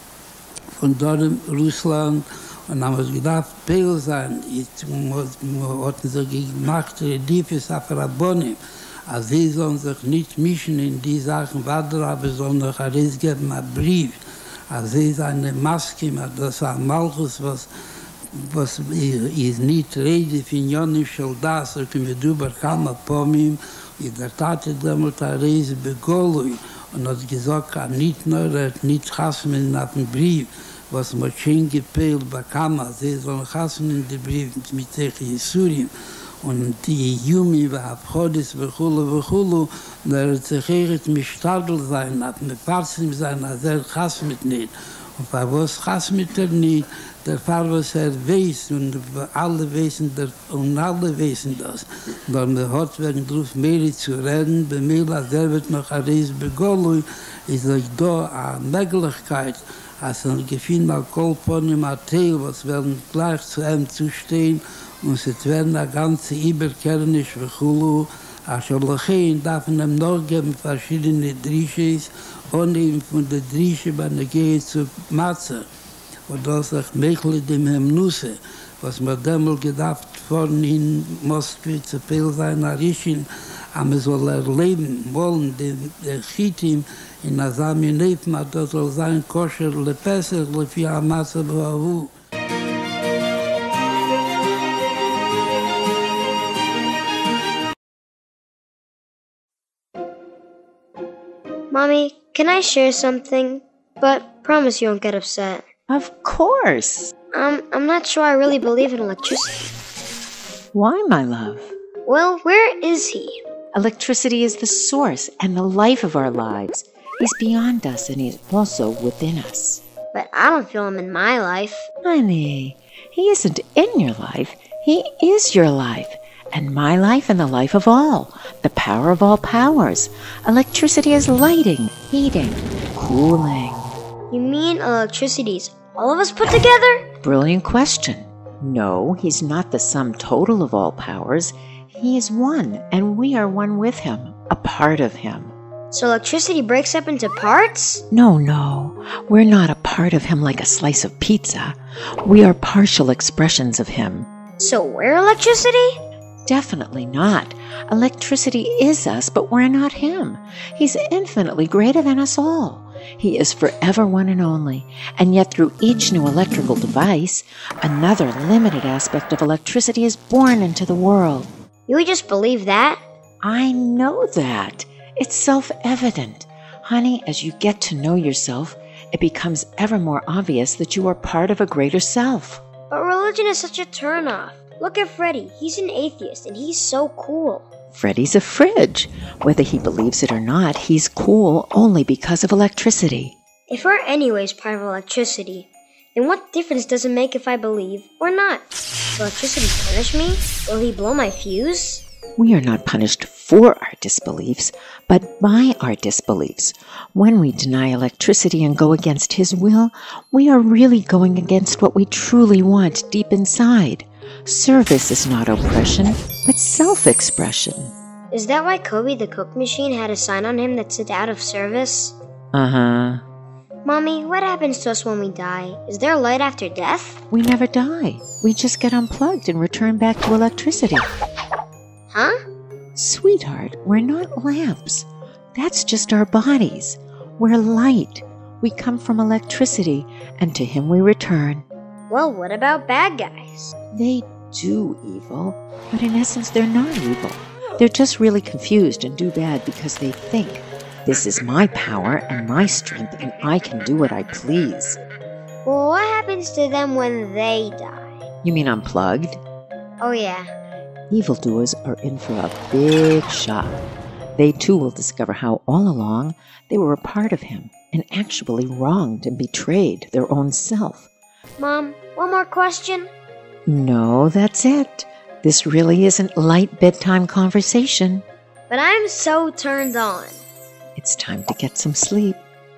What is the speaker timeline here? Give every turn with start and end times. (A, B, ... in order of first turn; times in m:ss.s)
0:00.8-0:17.7 A
0:18.4-0:35.9 A
0:36.4-1:15.7 A
1:16.3-1:32.1 A
1:41.7-1:45.7 B
1:45.9-1:47.1 C
1:47.3-1:49.7 B
1:50.7-1:51.7 C
1:52.0-1:53.4 B
1:53.7-1:59.8 C
2:00.1-2:01.9 B
2:02.0-2:14.0 C
2:14.3-2:17.0 B
2:17.2-2:25.5 C
2:25.9-2:28.0 B
2:28.1-2:34.3 C
2:34.6-2:36.0 B
2:36.4-2:51.5 C
2:51.9-2:53.0 B
2:53.4-3:02.6 C
3:02.9-3:07.7 B
3:07.9-3:13.3 C
3:13.7-3:22.0 B
3:22.4-3:37.9 C
3:38.3-3:42.1 B
3:42.5-3:43.2 C
3:43.8-3:47.2 B
3:47.3-3:51.1 C
3:52.1-3:52.4 B
3:52.9-4:01.6 C
4:02.1-4:03.7 B
4:03.9-4:15.0 C
4:15.6-4:18.2 B
4:18.4-4:19.4 C
4:20.0-4:20.5 B
4:21.1-4:23.8 C
4:24.4-4:31.1 C
4:31.6-4:33.1 B
4:33.7-4:38.2 C
4:38.7-4:40.4 B
4:41.0-4:42.4 C